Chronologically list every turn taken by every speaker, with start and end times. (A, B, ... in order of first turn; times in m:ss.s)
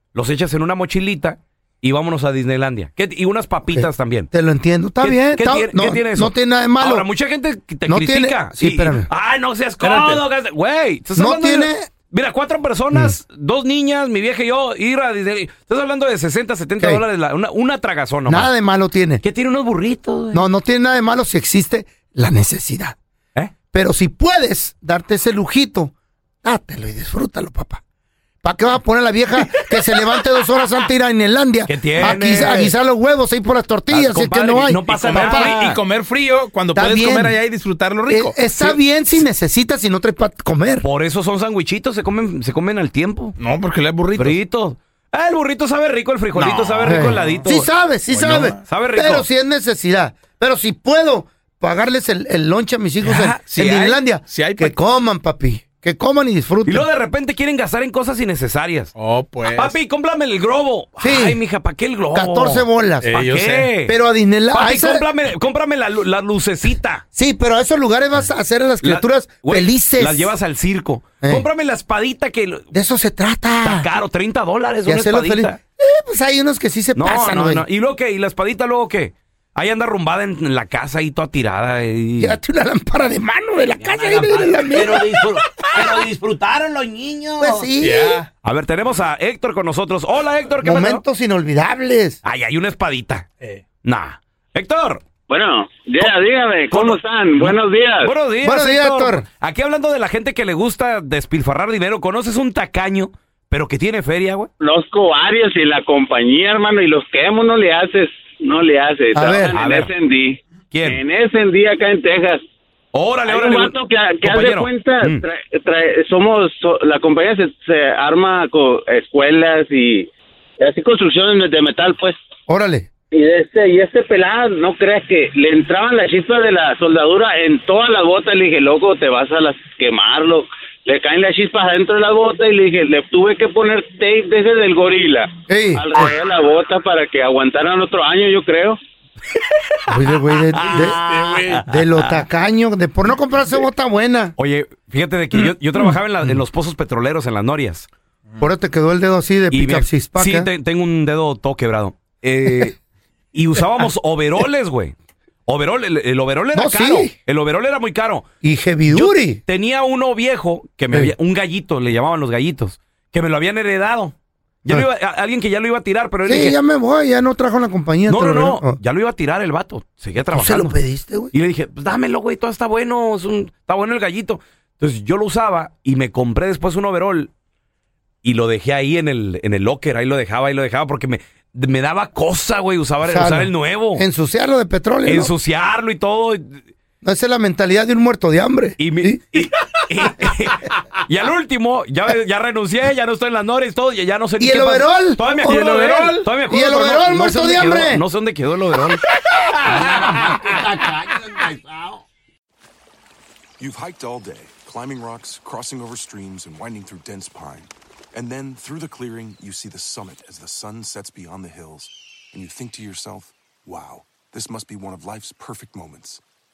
0:00.2-0:04.3 A
0:03.7-0:07.1 B
0:05.0-0:18.5 A
0:07.9-0:09.1 B
0:09.8-0:10.2 C
0:11.2-0:11.9 B
0:18.3-0:19.2 B
0:19.2-0:20.4 A
0:20.3-0:23.0 B
0:23.7-0:27.8 B
0:28.4-0:35.6 B
0:31.7-0:32.7 A
0:32.0-0:32.6 C
0:33.9-0:35.8 A
0:34.9-0:38.8 C
0:36.8-0:37.4 B
0:38.1-0:40.9 B
0:40.8-0:43.4 A
0:43.4-0:44.4 C
0:44.2-0:47.7 A
0:46.3-0:47.4 C
0:46.8-0:56.9 B
0:48.1-0:48.6 C
0:48.7-0:49.3 A
0:53.0-0:54.8 C
0:56.7-0:59.0 A
0:59.0-0:59.8 C
0:59.5-1:03.9 A
1:01.0-1:01.4 B
1:02.1-1:03.1 B
1:03.0-1:03.7 C
1:03.9-1:05.0 B
1:04.5-1:07.0 A
1:07.2-1:10.3 B
1:08.8-1:12.7 A
1:11.2-1:11.5 B
1:12.7-1:13.9 B
1:13.6-1:15.6 A
1:14.9-1:17.6 B
1:17.0-1:22.4 A
1:22.2-1:25.3 B
1:23.8-1:27.7 D
1:27.4-1:28.2 B
1:27.8-1:28.3 C
1:28.4-1:31.0 A
1:30.6-1:32.2 B
1:32.2-1:33.3 A
1:33.8-1:35.0 A
1:35.3-1:38.1 E
1:36.7-1:44.5 A
1:38.4-1:39.2 B
1:44.6-1:52.4 E
1:49.1-1:49.5 B
1:49.5-1:49.9 A
1:50.7-1:51.0 A
1:52.9-1:55.2 A
1:53.3-2:00.1 E
2:00.6-2:02.2 E
2:02.5-2:02.9 B
2:03.1-2:18.8 E
2:15.5-2:15.8 B
2:19.9-2:21.0 B
2:20.6-2:21.7 C
2:21.7-2:24.4 B
2:24.4-2:27.9 A
2:28.4-2:30.5 B
2:29.5-2:32.8 A
2:33.3-2:34.9 A
2:35.5-2:38.3 A
2:36.5-2:37.1 B
2:38.4-2:39.4 B
2:38.9-2:44.1 A
2:44.6-2:46.6 A
2:46.2-2:48.8 B
2:48.1-2:50.7 A
2:50.3-2:51.3 B
2:51.3-2:57.3 A
2:58.2-3:04.0 A
3:03.1-3:05.3 B
3:05.1-3:06.7 A
3:07.0-3:09.5 B
3:08.8-3:19.0 A
3:14.4-3:18.0 B
3:15.5-3:16.0 C
3:19.6-3:22.0 D
3:19.8-3:20.6 C
3:23.6-3:36.2 F